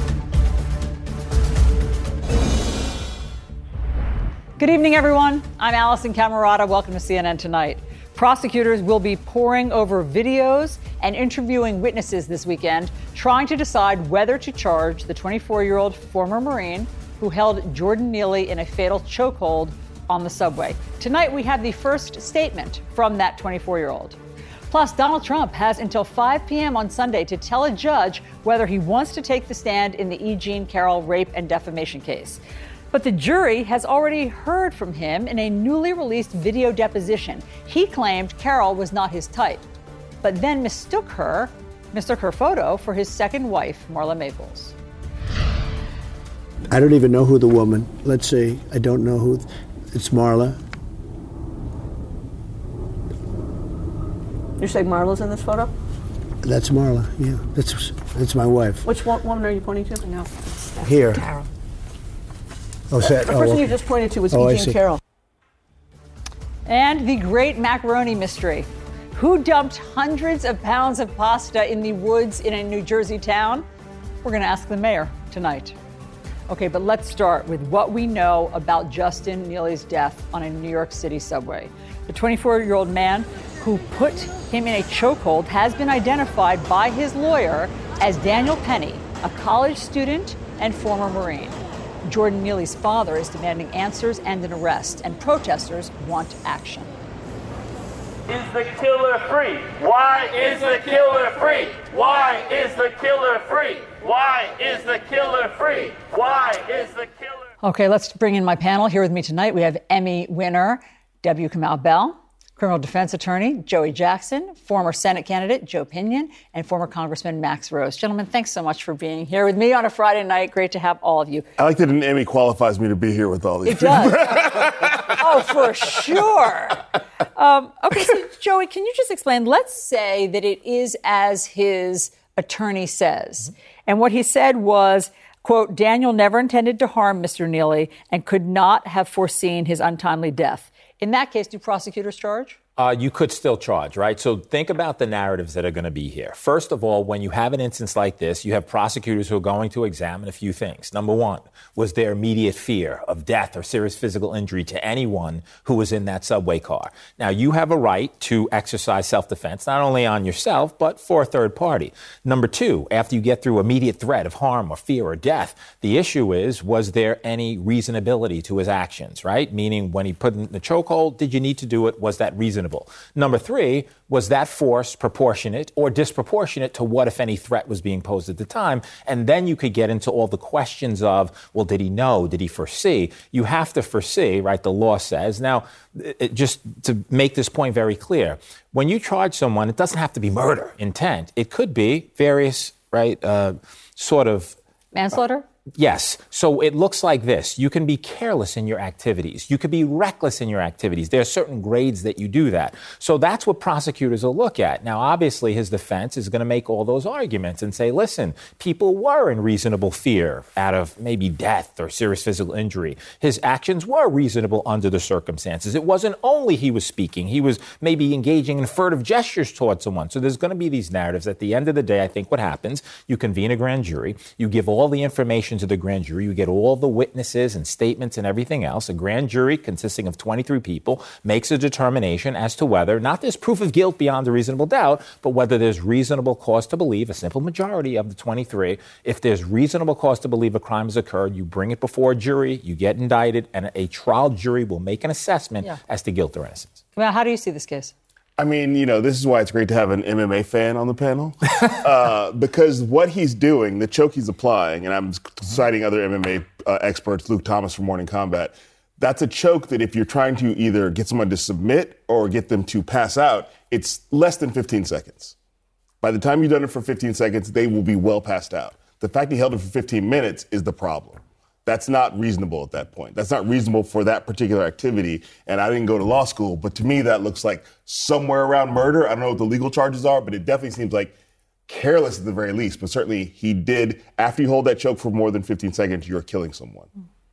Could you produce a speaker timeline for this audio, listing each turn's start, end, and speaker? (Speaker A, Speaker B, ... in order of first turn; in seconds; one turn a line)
Speaker A: 4.6-24.2
Speaker A: 24.7-32.4
Speaker A: 32.9-39.7
Speaker A: 40.2-44.8
Speaker B: 46.7-50.6
Speaker C: 54.6-55.7
Speaker B: 56.4-58.8
Speaker C: 58.8-60.3
Speaker B: 60.8-61.2
Speaker B: 62.9-63.7
Speaker C: 63.0-65.0
Speaker B: 64.3-64.8
Speaker A: 66.7-73.6
Speaker A: 74.2-75.8
Speaker A: 76.5-96.9
Speaker D: 98.5-99.8
Speaker D: 102.5-102.8
Speaker D: 104.3-104.7
Speaker D: 105.6-106.8
Speaker A: 107.6-121.5
Speaker E: 121.6-125.2
Speaker A: 123.7-124.4
Speaker A: 125.1-126.8
Speaker A: 127.3-142.6
Speaker F: 142.8-194.6
Speaker A: 194.9-195.4
Speaker F: 195.8-246.8
Speaker A: 246.9-247.9
Speaker E: 248.4-265.3
Speaker E: 266.0-281.1
Speaker E: 281.7-286.9